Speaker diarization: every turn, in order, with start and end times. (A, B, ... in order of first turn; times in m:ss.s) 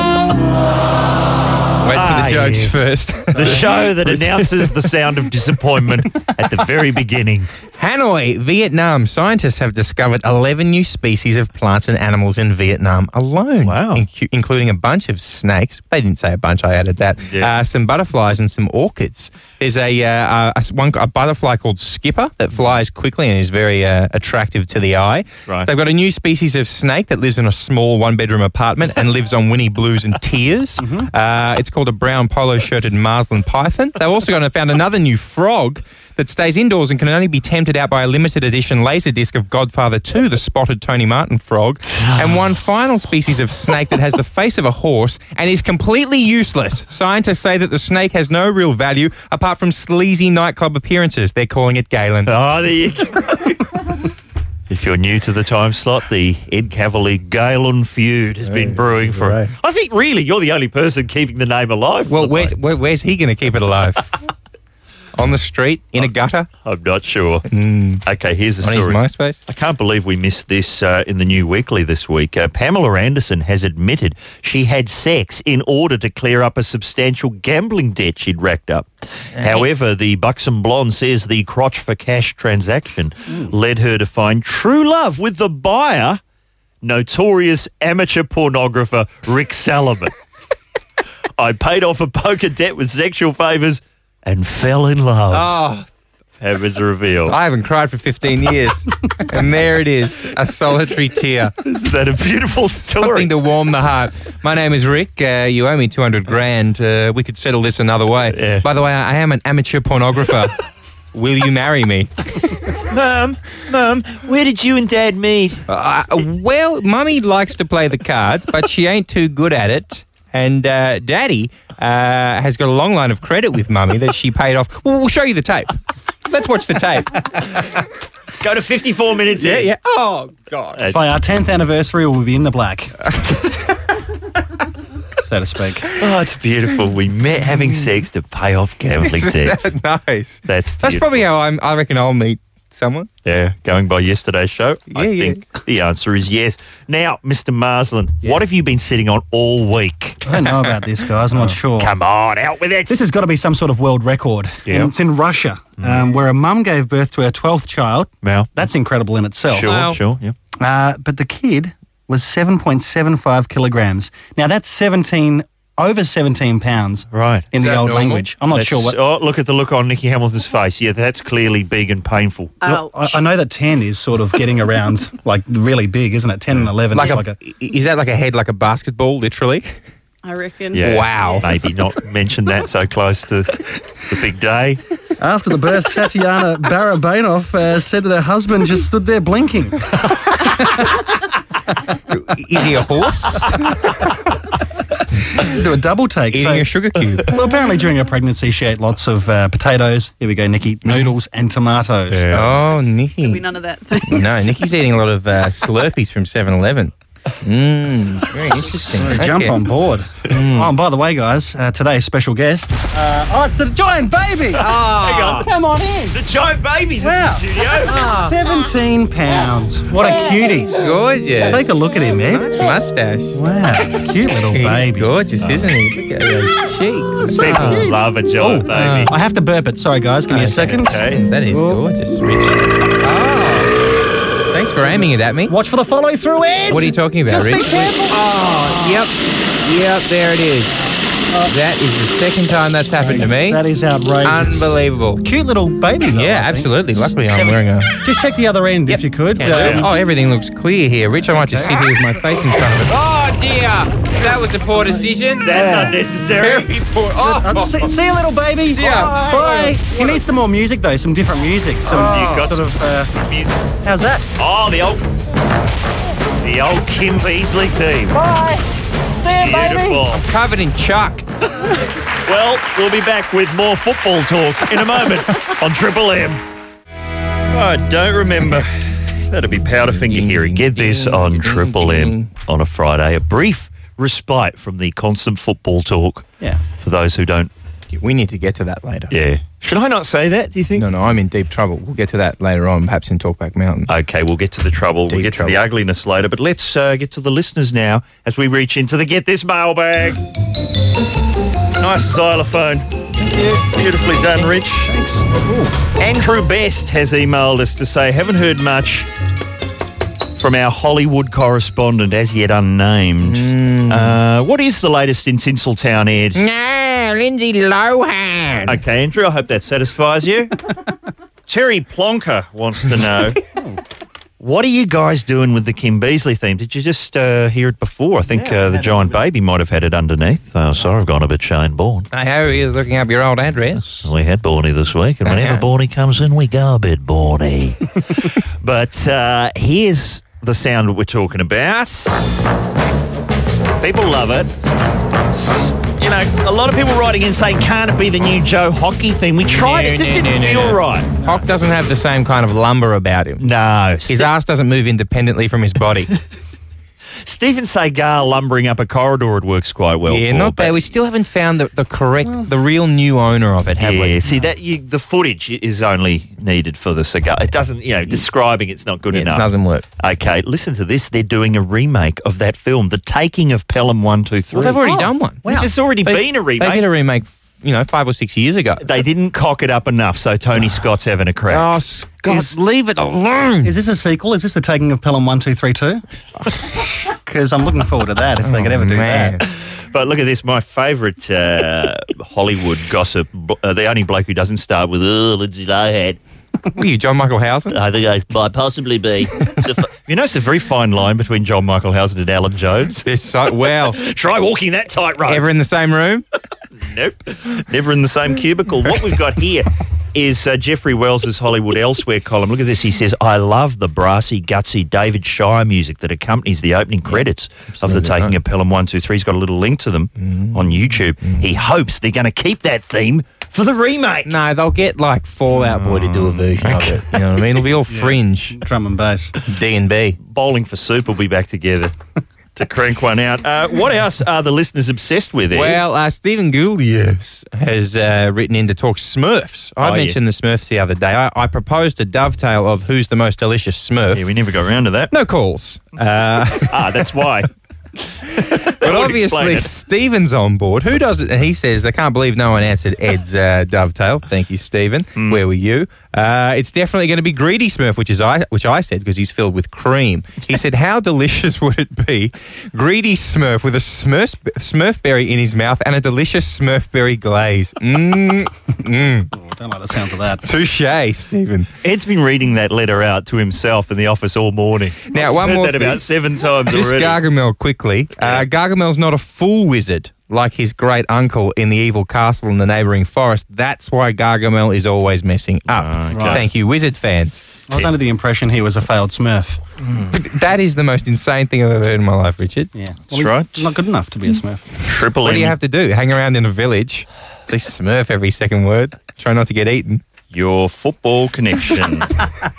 0:01.8-0:04.7 A
0:01.9-0:07.5 B
0:07.8-0:52.3 A
0:13.6-0:14.0 B
0:17.3-0:17.5 B
0:30.8-0:31.1 C
0:42.0-0:42.4 B
0:52.2-0:53.7 B
0:54.7-1:02.5 B
0:58.4-0:59.5 A
1:02.1-1:04.1 A
1:05.2-1:06.5 A
1:06.6-1:07.5 B
1:07.5-1:08.0 A
1:08.0-1:26.2 B
1:08.6-1:09.4 A
1:19.4-1:19.6 A
1:26.8-1:30.1 B
1:31.4-1:35.5 B
1:35.3-1:35.8 A
1:36.4-1:37.4 B
1:37.3-1:41.5 A
1:41.6-1:43.3 B
1:42.9-1:50.6 A
1:48.3-1:48.6 B
1:51.1-1:52.1 A
1:52.8-1:55.6 B
1:55.7-2:07.8 A
2:08.4-2:09.7 B
2:09.4-2:10.8 A
2:10.8-2:11.0 B
2:10.9-2:13.0 C
2:13.2-2:13.5 A
2:15.2-2:15.8 C
2:16.0-2:19.7 B
2:19.0-2:23.1 A
2:20.5-2:21.2 B
2:23.2-2:30.2 B
2:24.9-2:25.4 A
2:30.2-2:31.9 C
2:31.8-2:33.0 B
2:32.9-2:39.7 C
2:34.6-2:34.9 B
2:35.8-2:36.0 B
2:38.2-2:38.5 B
2:39.5-2:40.3 B
2:39.6-2:40.0 A
2:40.6-2:49.0 C
2:47.1-2:47.5 B
2:47.6-2:48.3 A
2:48.5-2:52.6 B
2:52.6-2:53.1 D
2:52.6-2:57.4 C
2:56.9-2:59.7 A
3:00.2-3:01.7 D
3:00.7-3:04.8 B
3:00.8-3:01.5 A
3:05.2-3:10.8 C
3:12.1-3:13.9 A
3:15.3-3:22.3 C
3:16.3-3:17.3 A
3:22.1-3:22.6 B
3:22.3-3:23.4 A
3:23.2-3:24.6 D
3:24.1-3:29.6 A
3:28.7-3:34.6 C
3:30.3-3:30.7 A
3:34.6-3:35.5 A
3:34.7-3:35.5 B
3:35.4-3:36.2 C
3:36.1-3:38.1 B
3:37.0-3:40.7 C
3:37.8-3:38.3 A
3:40.8-3:41.8 A
3:41.4-3:42.7 C
3:42.3-3:43.4 A
3:43.3-3:45.1 C
3:44.5-3:47.8 A
3:45.4-3:45.7 B
3:47.3-3:49.1 B
3:47.3-3:51.9 C
3:48.7-3:49.1 A
3:50.3-3:53.7 A
3:50.6-3:51.3 B
3:54.5-3:55.5 A
3:55.5-3:59.1 C
3:56.7-4:00.8 A
4:01.5-4:03.6 A
4:03.0-4:09.9 C
4:04.2-4:05.2 A
4:06.1-4:07.9 A
4:08.9-4:15.5 A
4:09.5-4:09.9 B
4:11.5-4:12.3 C
4:15.4-4:16.7 B
4:15.5-4:16.0 C
4:16.4-4:17.9 A
4:17.2-4:23.1 C
4:18.6-4:19.9 A
4:21.9-4:23.5 B
4:21.9-4:22.4 A
4:23.8-4:24.2 C
4:24.4-4:25.0 B
4:26.4-4:28.2 B
4:28.1-4:28.6 C
4:29.3-4:30.2 B
4:29.4-4:29.9 C
4:29.4-4:31.2 A
4:32.2-4:36.4 B
4:37.5-4:47.5 B
4:40.0-4:42.3 A
4:47.9-4:49.1 A
4:49.1-4:50.9 B
4:50.8-4:53.9 A
4:53.9-5:00.2 B
4:55.1-4:55.6 A
5:01.8-5:05.3 B
5:05.2-5:05.7 C
5:05.8-5:09.1 B
5:10.4-5:16.4 B
5:13.2-5:14.2 A
5:16.3-5:18.8 A
5:18.7-5:20.5 B
5:21.5-5:23.4 B
5:23.5-5:23.8 C
5:24.4-5:32.1 B
5:28.4-5:29.1 C
5:32.1-5:34.1 A
5:34.0-5:42.2 B
5:35.2-5:35.6 A
5:43.8-5:44.5 B
5:45.4-5:51.2 B
5:49.4-5:53.4 A
5:53.4-5:54.3 B
5:54.1-5:56.1 A
5:57.2-6:00.9 B
6:00.1-6:04.2 A
6:02.2-6:02.5 C
6:03.8-6:16.8 B
6:09.1-6:09.8 A
6:14.5-6:15.4 A
6:14.9-6:15.7 C
6:16.0-6:18.9 A
6:18.8-6:21.7 B
6:21.5-6:23.7 A
6:23.6-6:26.0 C
6:27.1-6:29.4 C
6:28.4-6:29.4 A
6:29.6-6:36.2 B
6:36.7-6:37.8 A
6:37.7-6:43.1 B
6:43.0-6:44.0 A
6:43.9-6:45.4 B
6:45.3-6:46.2 A
6:46.8-7:04.3 B
6:57.8-6:58.4 A
7:00.2-7:01.4 A
7:04.2-7:08.6 A
7:05.5-7:07.2 B
7:07.9-7:09.3 C
7:09.4-7:10.2 A
7:10.2-7:11.9 B
7:12.6-7:15.8 B
7:15.5-7:24.3 A
7:19.8-7:20.2 B
7:24.1-7:25.1 B
7:25.1-7:27.1 A
7:26.6-7:27.5 B
7:28.3-7:49.3 A
7:28.3-7:29.7 B
7:35.2-7:35.4 B
7:49.3-7:50.4 C
7:50.4-7:51.7 A
7:51.8-7:57.2 B
7:55.1-7:56.0 A
7:56.7-8:07.4 A
8:05.7-8:06.4 B
8:06.1-8:06.4 C
8:07.7-8:09.6 C
8:10.1-8:12.7 A
8:12.7-8:14.8 C
8:13.1-8:13.7 B
8:14.8-8:15.6 B
8:15.2-8:20.0 A
8:20.3-8:22.2 B